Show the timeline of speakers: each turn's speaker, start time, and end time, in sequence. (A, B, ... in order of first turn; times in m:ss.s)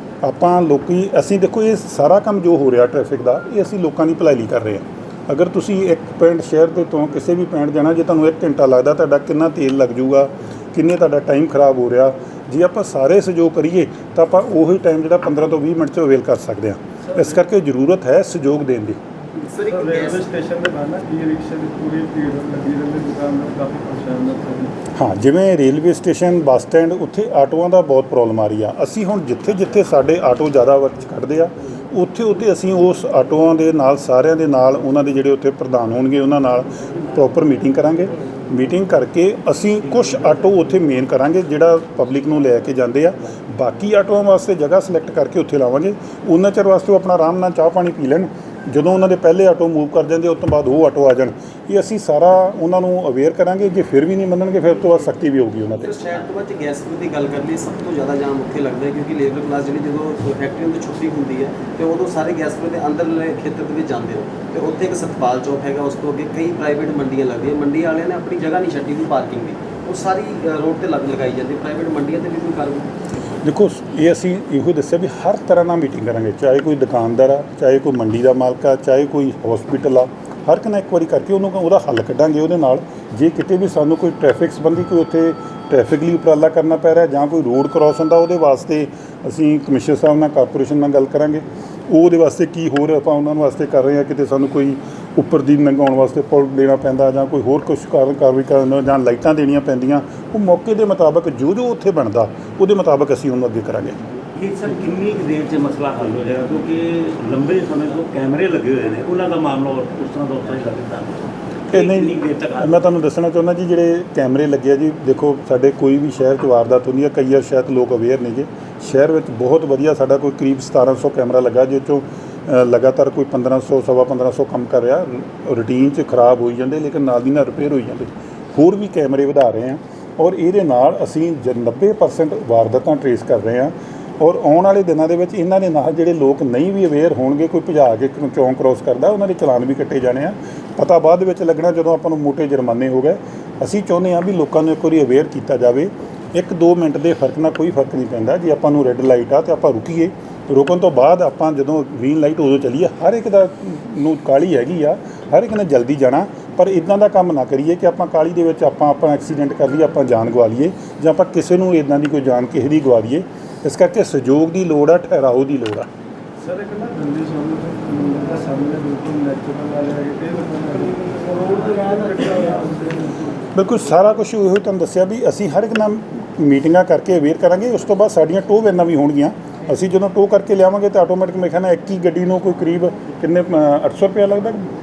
0:00.2-0:19.0 A
0:19.4-0:20.3 B
0:19.6-0:24.7 C
0:25.0-0:55.9 A
0:55.8-1:12.9 B
1:13.4-1:44.0 A
1:44.4-1:52.8 D
1:51.7-2:45.9 A
2:46.4-2:53.0 C
2:53.6-3:04.7 A